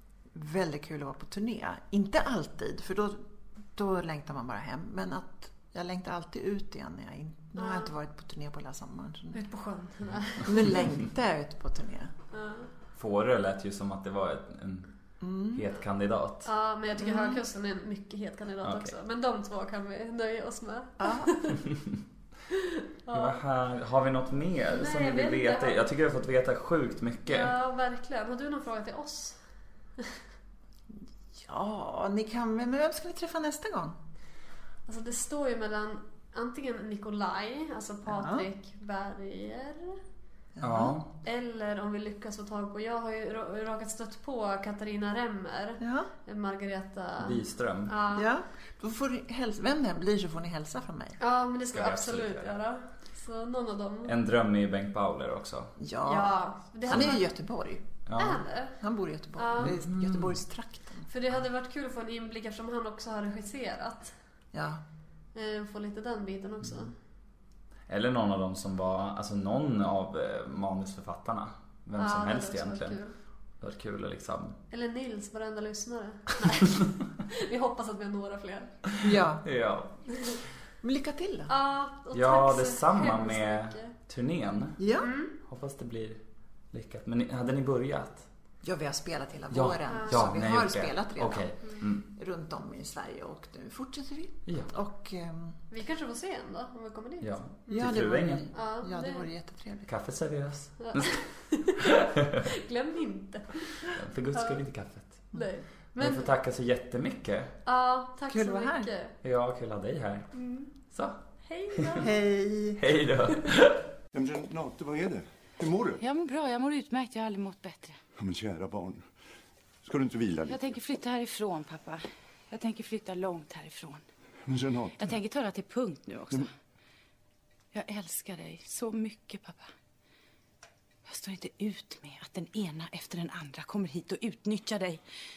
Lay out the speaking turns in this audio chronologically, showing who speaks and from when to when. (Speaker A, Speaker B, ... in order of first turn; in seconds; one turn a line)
Speaker A: 0.3-9.4
Speaker B: 7.6-7.9
Speaker B: 9.3-10.8
Speaker A: 10.4-12.1
Speaker B: 12.3-12.7
Speaker C: 12.9-14.9
Speaker A: 15.2-15.7
Speaker C: 15.5-16.5
Speaker B: 16.5-21.7
Speaker A: 17.0-17.4
Speaker C: 18.6-18.9
Speaker A: 21.0-21.3
Speaker C: 21.6-21.9
Speaker B: 22.5-23.4
Speaker C: 23.1-27.5
Speaker B: 24.7-25.8
Speaker B: 27.3-29.4
Speaker A: 30.9-34.0
Speaker B: 34.9-40.0
Speaker A: 38.0-38.5
Speaker A: 40.5-41.0
Speaker C: 40.6-41.1
Speaker B: 41.2-48.3
Speaker A: 45.8-46.1
Speaker C: 47.2-48.0
Speaker A: 48.1-51.2
Speaker B: 51.2-54.1
Speaker C: 51.7-52.5
Speaker C: 54.0-55.7
Speaker A: 55.8-57.9
Speaker B: 56.0-57.2
Speaker C: 58.0-58.4
Speaker B: 58.2-58.8
Speaker A: 58.8-61.1
Speaker B: 59.4-59.8
Speaker C: 59.6-60.4
Speaker B: 61.1-64.1
Speaker A: 64.5-64.8
Speaker B: 65.3-66.9
Speaker C: 67.9-73.0
Speaker B: 72.0-73.1
Speaker C: 73.6-74.6
Speaker B: 74.7-78.8
Speaker C: 78.9-80.0
Speaker A: 79.0-79.4
Speaker A: 80.8-81.5
Speaker B: 81.5-83.9
Speaker C: 82.1-84.8
Speaker A: 84.8-85.1
Speaker B: 85.0-85.3
Speaker C: 85.4-86.2
Speaker C: 86.7-88.3
Speaker A: 88.6-95.6
Speaker C: 89.5-92.0
Speaker B: 89.9-90.2
Speaker C: 94.5-94.7
Speaker B: 95.7-98.0
Speaker C: 97.2-98.5
Speaker A: 97.7-99.9
Speaker B: 98.5-99.3
Speaker C: 99.9-101.2
Speaker B: 100.8-104.6
Speaker C: 101.8-102.5
Speaker C: 103.8-105.3
Speaker B: 105.3-106.3
Speaker C: 106.0-107.5
Speaker B: 107.7-109.1
Speaker A: 108.3-108.9
Speaker C: 109.2-110.3
Speaker B: 110.3-110.7
Speaker C: 110.9-111.2
Speaker B: 111.5-112.1
Speaker C: 111.7-112.0
Speaker A: 112.0-112.8
Speaker C: 112.8-113.9
Speaker D: 114.1-116.0
Speaker E: 116.0-118.0
Speaker D: 118.2-119.0
Speaker D: 119.8-120.6
Speaker E: 120.5-124.0
Speaker D: 124.5-125.2
Speaker E: 125.0-126.5
Speaker E: 127.7-129.7
Speaker E: 131.1-135.0